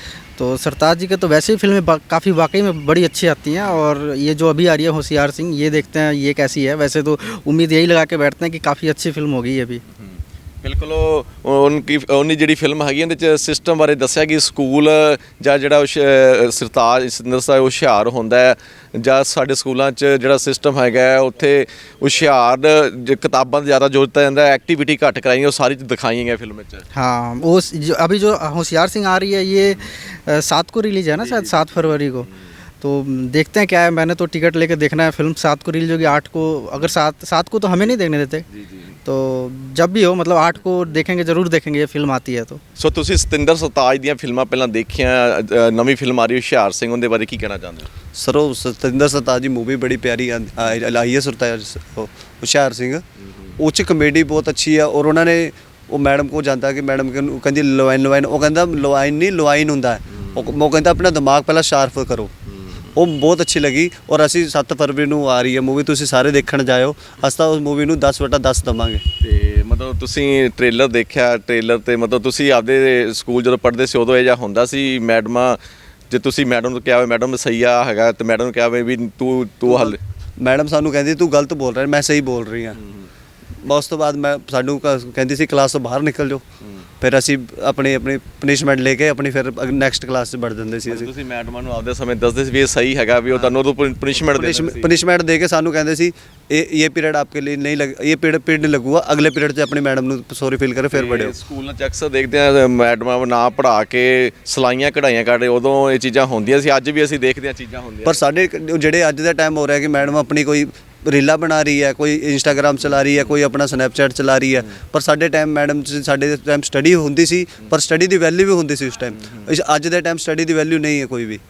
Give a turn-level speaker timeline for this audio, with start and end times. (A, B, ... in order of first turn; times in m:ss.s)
0:00.4-0:09.8 A
0:10.0-0:26.8 B
0:26.9-0:32.3 A
0:31.4-0:31.9 B
0:32.8-0:38.4 A
0:38.5-0:38.9 B
0:39.0-0:42.6 A
0:42.8-0:47.9 B
0:48.2-0:53.0 C
0:53.6-1:02.3 C
1:02.5-1:02.9 B
1:02.9-1:09.0 C
1:09.2-1:15.6 B
1:16.1-1:20.0 B
1:19.7-1:22.8 C
1:23.6-1:26.4 C
1:27.0-1:31.1 C
1:30.9-1:35.0 B
1:34.2-1:41.3 C
1:40.9-1:48.2 B
1:48.0-2:01.4 C